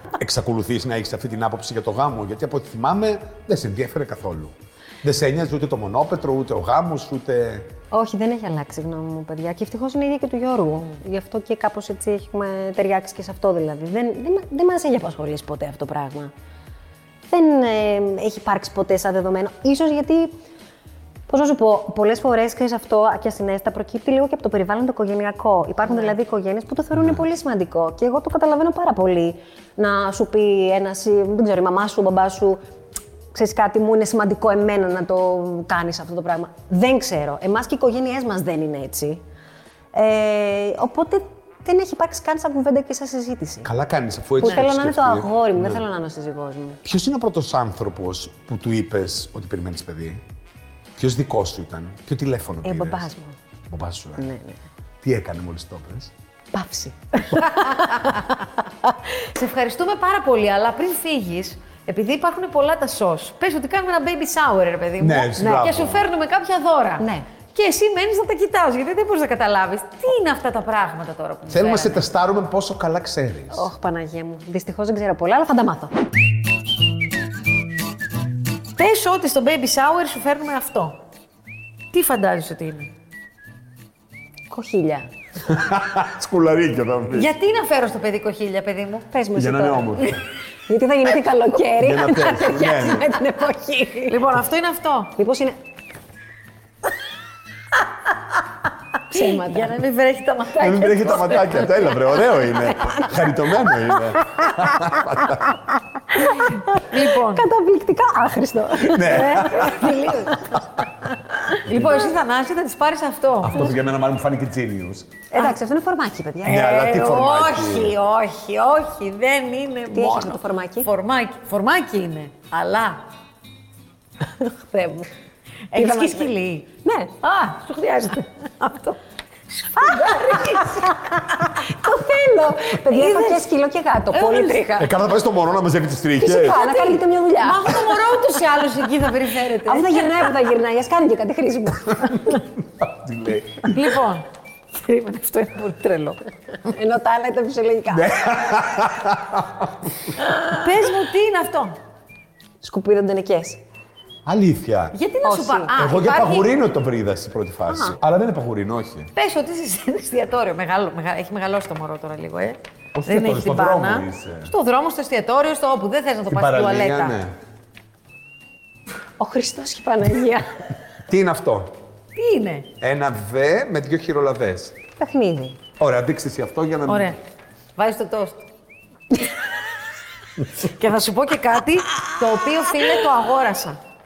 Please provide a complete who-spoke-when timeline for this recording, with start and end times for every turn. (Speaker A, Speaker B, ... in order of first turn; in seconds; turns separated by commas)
Speaker A: 0.2-7.7, Speaker B: 7.9-16.3, Speaker B: 17.3-20.3, Speaker B: 21.3-32.6, Speaker B: 33.3-39.2, Speaker B: 39.9-43.7, Speaker A: 43.6-45.8, Speaker B: 44.4-46.8, Speaker A: 46.8-50.2, Speaker A: 51.0-53.1, Speaker B: 52.6-53.3, Speaker A: 53.7-54.2, Speaker B: 54.2-54.6, Speaker A: 55.0-56.1, Speaker B: 56.5-58.3, Speaker C: 57.3-58.4, Speaker C: 59.3-72.0, Speaker A: 65.0-66.0, Speaker B: 65.4-65.7, Speaker B: 67.0-67.2, Speaker A: 71.5-73.7, Speaker B: 73.5-76.0, Speaker C: 78.8-81.0, Speaker C: 81.9-82.9, Speaker B: 84.5-85.1, Speaker A: 85.4-87.3, Speaker C: 87.1-89.1, Speaker B: 89.1-90.1, Speaker A: 89.3-90.2, Speaker B: 90.7-94.3, Speaker A: 91.8-93.2, Speaker C: 94.1-95.1, Speaker B: 95.1-95.5, Speaker B: 99.1-99.8, Speaker C: 99.1-102.3, Speaker B: 100.5-101.6, Speaker A: 100.6-105.5, Speaker B: 102.8-103.1, Speaker B: 103.7-110.6, Speaker C: 106.4-107.5, Speaker A: 108.8-110.0, Speaker C: 109.2-110.4, Speaker C: 111.6-113.7, Speaker A: 113.4-115.1, Speaker B: 115.3-116.8, Speaker A: 116.4-117.9, Speaker C: 116.5-123.0, Speaker B: 119.9-120.9, Speaker B: 124.2-125.1, Speaker C: 125.7-126.7, Speaker B: 125.7-127.4, Speaker C: 127.4-129.0, Speaker C: 129.5-131.6, Speaker B: 129.7-134.9, Speaker C: 132.7-133.4, Speaker C: 134.1-134.8, Speaker A: 134.8-136.6, Speaker B: 136.2-138.0, Speaker C: 136.4-140.3, Speaker B: 139.5-142.4, Speaker A: 142.3-144.0, Speaker C: 143.7-144.2, Speaker C: 144.8-146.2, Speaker B: 146.6-148.1, Speaker A: 147.9-150.1, Speaker C: 150.5-151.8, Speaker B: 152.6-153.6, Speaker A: 154.2-154.9, Speaker C: 154.9-156.5, Speaker B: 155.2-155.7, Speaker A: 155.7-159.1, Speaker B: 157.7-157.9, Speaker C: 159.1-167.2, Speaker A: 162.9-164.5, Speaker A: 166.3-167.3, Speaker B: 169.2-170.5, Speaker A: 171.1-171.7, Speaker C: 172.2-172.7, Speaker A: 172.8-174.8, Speaker B: 175.0-175.6, Speaker A: 175.8-177.2, Speaker C: 176.8-177.2, Speaker C: 177.8-178.4, Speaker C: 180.5-183.8